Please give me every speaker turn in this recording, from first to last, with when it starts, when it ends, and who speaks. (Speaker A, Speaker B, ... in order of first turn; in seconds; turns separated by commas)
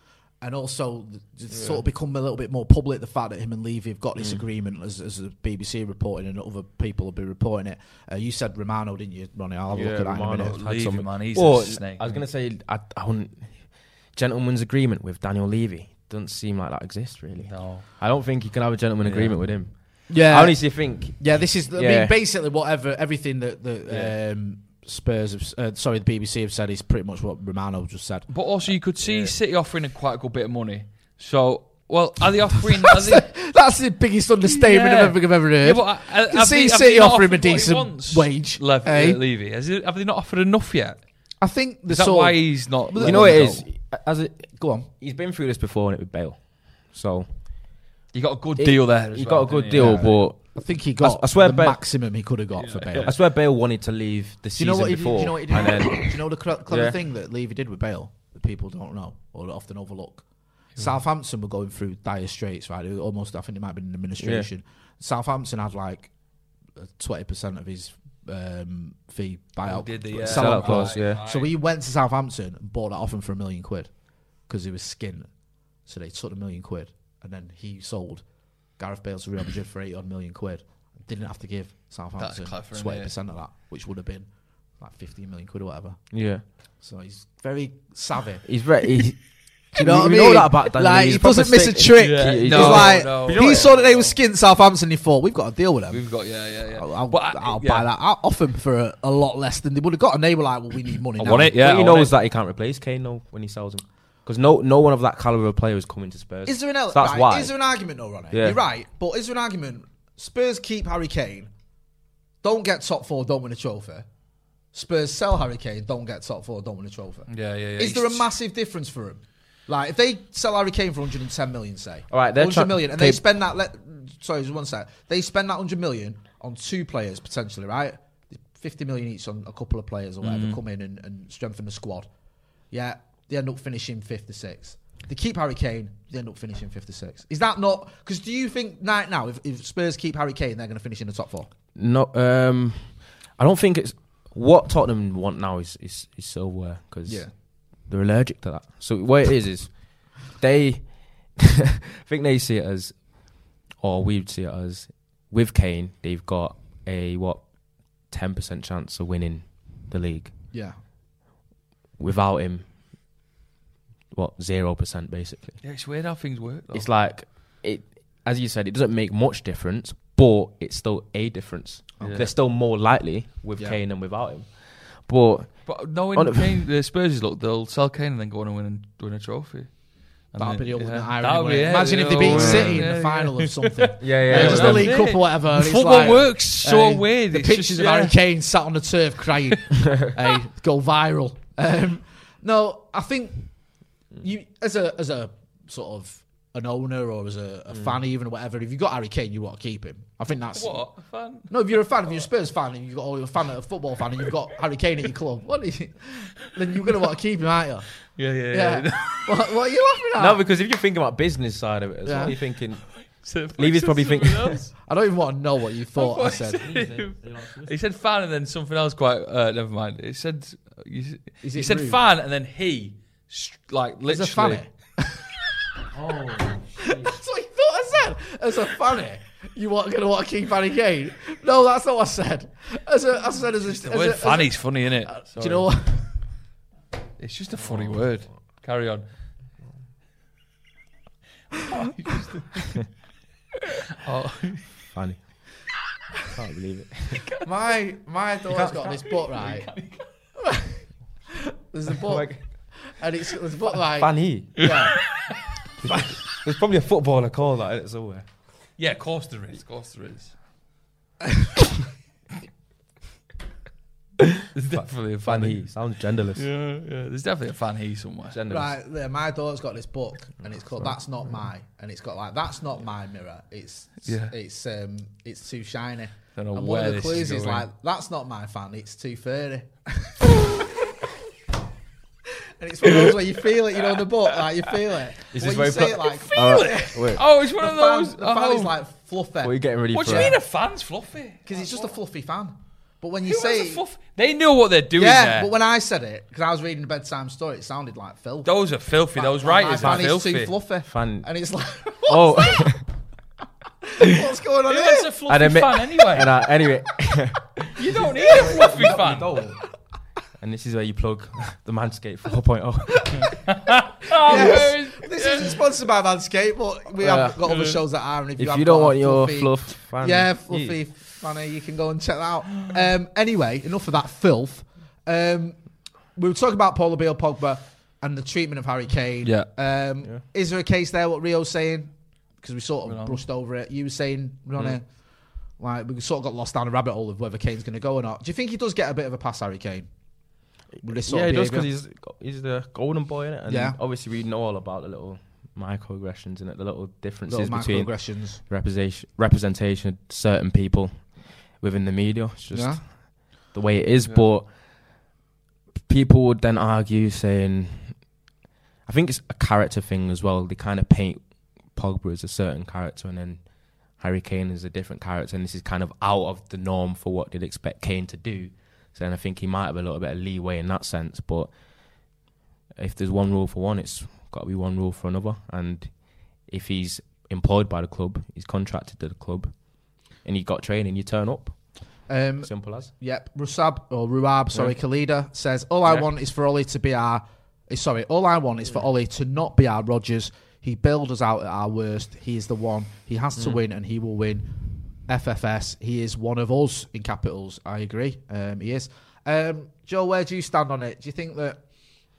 Speaker A: 0.4-10.6, Speaker B: 1.5-1.9, Speaker B: 4.2-4.4, Speaker B: 9.7-22.2, Speaker C: 10.5-12.2, Speaker C: 17.4-17.9, Speaker C: 19.0-19.4, Speaker A: 20.1-28.3, Speaker B: 23.9-24.1, Speaker C: 28.3-33.3, Speaker B: 29.0-29.3, Speaker A: 32.8-39.2, Speaker C: 34.4-41.0, Speaker A: 41.4-43.7, Speaker C: 41.9-43.5, Speaker B: 43.0-47.6, Speaker A: 44.5-44.9, Speaker C: 48.1-50.2, Speaker B: 48.6-51.8, Speaker A: 49.7-53.1, Speaker C: 52.6-53.1, Speaker B: 53.0-57.0, Speaker A: 54.6-60.2, Speaker A: 60.8-66.1, Speaker B: 64.2-64.5, Speaker A: 66.8-73.9, Speaker C: 69.6-71.5, Speaker B: 70.2-71.2, Speaker A: 74.5-75.3, Speaker A: 75.8-78.2, Speaker A: 78.8-84.3, Speaker C: 82.2-83.1, Speaker A: 84.8-86.0, Speaker B: 86.1-86.4, Speaker A: 86.8-88.4, Speaker B: 88.4-93.8, Speaker A: 89.7-96.0, Speaker C: 92.0-94.2, Speaker C: 95.9-97.9, Speaker A: 96.7-101.6, Speaker C: 101.2-102.1, Speaker B: 101.5-107.5, Speaker A: 106.4-111.5, Speaker B: 108.3-108.6, Speaker A: 112.4-114.0, Speaker A: 114.7-117.3, Speaker C: 117.3-118.3, Speaker A: 117.8-132.1, Speaker B: 122.1-123.2, Speaker C: 130.2-130.6, Speaker A: 132.7-141.5, Speaker B: 141.8-157.4, Speaker A: 147.1-147.3, Speaker B: 158.1-160.3, Speaker B: 162.0-162.7, Speaker B: 164.1-165.6, Speaker C: 165.6-166.9, Speaker B: 166.7-176.6, Speaker A: 172.0-172.3, Speaker C: 172.0-172.3, Speaker C: 175.7-188.2, Speaker A: 180.4-193.5, Speaker B: 182.2-182.9, Speaker B: 184.0-185.0, Speaker A: 194.2-200.8, Speaker B: 197.7-198.0, Speaker C: 200.5-201.5, Speaker A: 201.5-207.9, Speaker C: 208.2-209.4, Speaker A: 208.5-210.4, Speaker B: 210.2-214.6, Speaker A: 212.0-212.3, Speaker C: 213.0-214.7, Speaker A: 214.9-216.7, Speaker C: 215.9-224.6, Speaker B: 216.6-217.8, Speaker A: 221.4-222.0, Speaker A: 224.1-225.2, Speaker B: 225.9-227.2, Speaker A: 227.0-236.1, Speaker C: 233.7-235.7, Speaker C: 237.2-239.1, Speaker B: 237.5-238.2, Speaker C: 241.7-242.8, Speaker C: 244.0-244.7, Speaker B: 244.9-245.4, Speaker B: 246.3-247.3, Speaker A: 247.4-249.7, Speaker B: 248.5-248.8, Speaker C: 248.5-250.1, Speaker A: 251.7-255.0, Speaker B: 252.0-252.4, Speaker B: 253.8-254.7, Speaker C: 254.6-255.3, Speaker B: 255.8-258.2, Speaker A: 255.8-256.1, Speaker C: 258.8-260.3, Speaker C: 264.5-265.6, Speaker B: 264.7-266.5, Speaker C: 266.4-268.4, Speaker B: 268.3-268.7, Speaker A: 268.5-280.3, Speaker C: 274.0-274.3, Speaker C: 276.4-277.7, Speaker A: 282.6-290.4, Speaker B: 285.3-287.2, Speaker C: 286.0-288.7, Speaker B: 289.4-290.4, Speaker C: 289.9-291.9, Speaker A: 291.4-293.8, Speaker C: 293.2-295.5, Speaker A: 294.9-298.5, Speaker C: 298.4-300.5, Speaker A: 299.1-302.7, Speaker B: 299.8-300.1, Speaker B: 300.9-301.3, Speaker B: 302.1-302.8, Speaker A: 304.0-305.1, Speaker C: 304.7-306.3, Speaker B: 305.3-309.6, Speaker C: 307.8-309.3, Speaker B: 310.4-313.4, Speaker C: 313.5-315.6, Speaker B: 314.2-314.7, Speaker A: 314.2-325.6, Speaker B: 317.0-317.4, Speaker C: 317.4-317.8, Speaker B: 318.4-320.8, Speaker A: 326.1-334.9, Speaker C: 329.2-329.5, Speaker C: 332.8-333.2, Speaker A: 335.6-339.9, Speaker A: 340.8-341.7, Speaker B: 340.9-354.5, Speaker A: 343.5-343.8, Speaker A: 347.3-348.4, Speaker A: 352.5-352.8, Speaker B: 355.8-358.2, Speaker B: 358.9-371.5, Speaker B: 372.8-375.9, Speaker B: 376.4-381.6, Speaker A: 382.1-394.5, Speaker B: 382.4-382.9, Speaker B: 393.4-393.6, Speaker A: 395.1-401.6